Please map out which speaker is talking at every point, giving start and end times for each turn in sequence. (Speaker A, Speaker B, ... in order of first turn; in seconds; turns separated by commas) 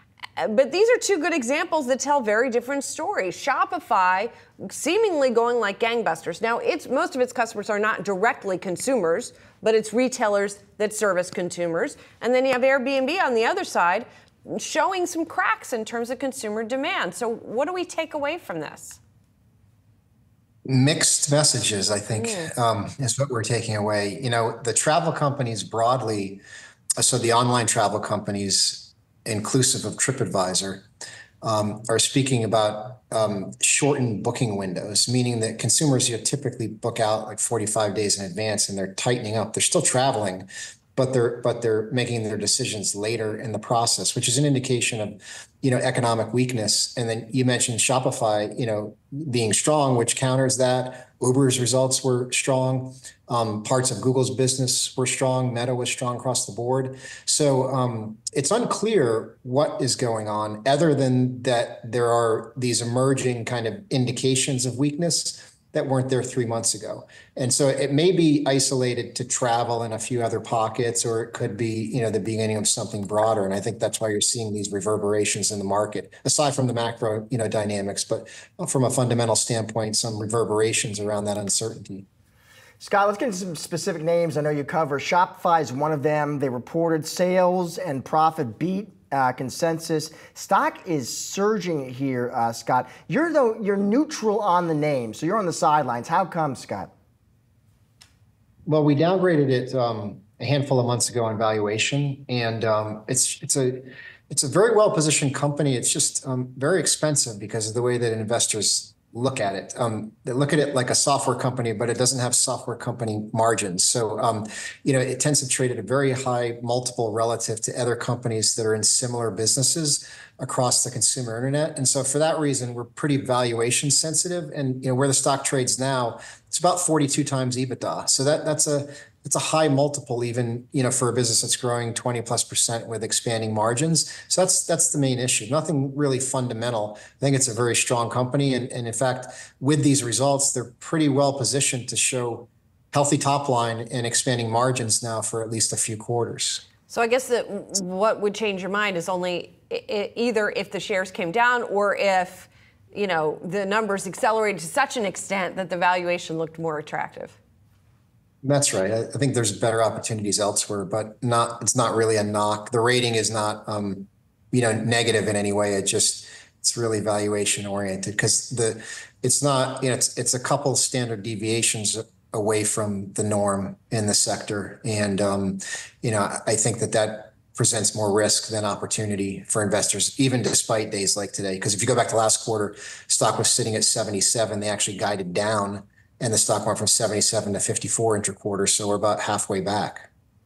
Speaker A: 0.4-19.0, Speaker B: 20.7-26.4, Speaker A: 22.1-22.5, Speaker B: 27.0-30.9, Speaker B: 31.4-82.0, Speaker C: 82.8-96.9, Speaker B: 98.7-146.6, Speaker A: 146.9-157.4, Speaker B: 158.4-190.1